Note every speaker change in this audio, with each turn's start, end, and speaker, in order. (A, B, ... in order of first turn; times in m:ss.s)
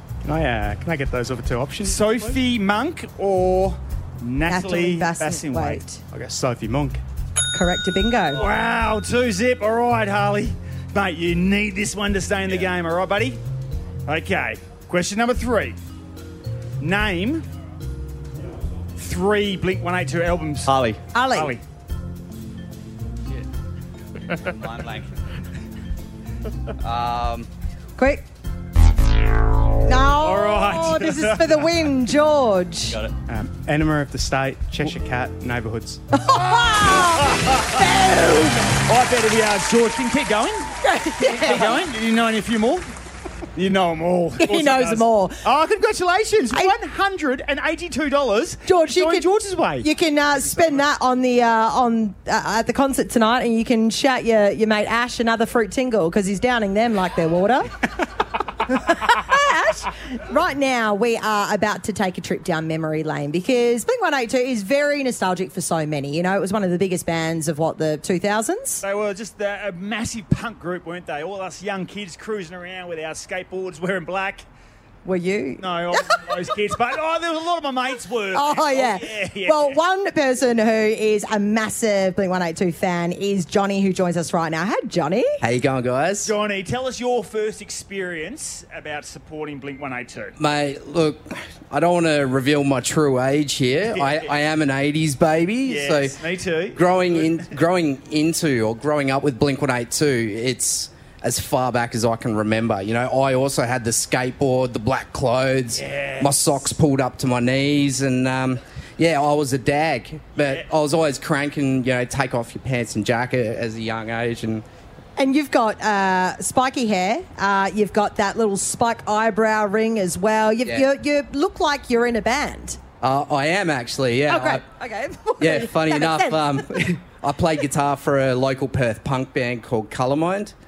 0:00.2-0:02.4 A
0:01.8-0:05.8 B
0:04.5-0:06.0 C
0:06.1-0:07.0 A
0:07.5-0:08.4 C
0:08.3-0:13.4 B
0:14.1-0:15.8 B
0:16.8-0:17.4 B
0:19.0-0:20.7 B
0:20.6-0:21.0 D
0:21.1-0:21.6 C
0:21.3-0:21.6 B
0:24.4-0:25.1 D
0:26.8-0:27.5 D
0:28.0-0:28.2 C
0:29.8-0:33.0 C
0:30.2-0:31.7 B
0:32.9-0:33.1 D
0:33.3-0:36.0 A
0:36.1-0:38.7 C
0:36.8-0:37.8 B
0:38.8-0:40.7 B
0:40.8-0:41.8 C
0:41.4-0:42.9 B
0:43.5-0:49.9 B
0:44.4-0:45.4 C
0:48.6-0:49.3 C
0:49.8-0:57.9 C
0:50.4-0:50.8 B
0:58.6-1:08.8 C
1:08.8-1:14.4 B
1:15.0-1:16.3 C
1:15.6-1:19.8 B
1:18.3-1:25.4 C
1:25.4-1:26.3 E
1:26.2-1:30.3 B
1:30.4-1:36.2 E
1:33.9-1:34.3 B
1:35.6-1:37.4 B
1:36.7-1:54.6 E
1:45.8-1:46.5 B
1:50.4-1:50.6 B
1:55.2-2:02.8 C
2:03.0-2:04.6 E
2:04.3-2:06.6 C
2:05.4-2:10.5 E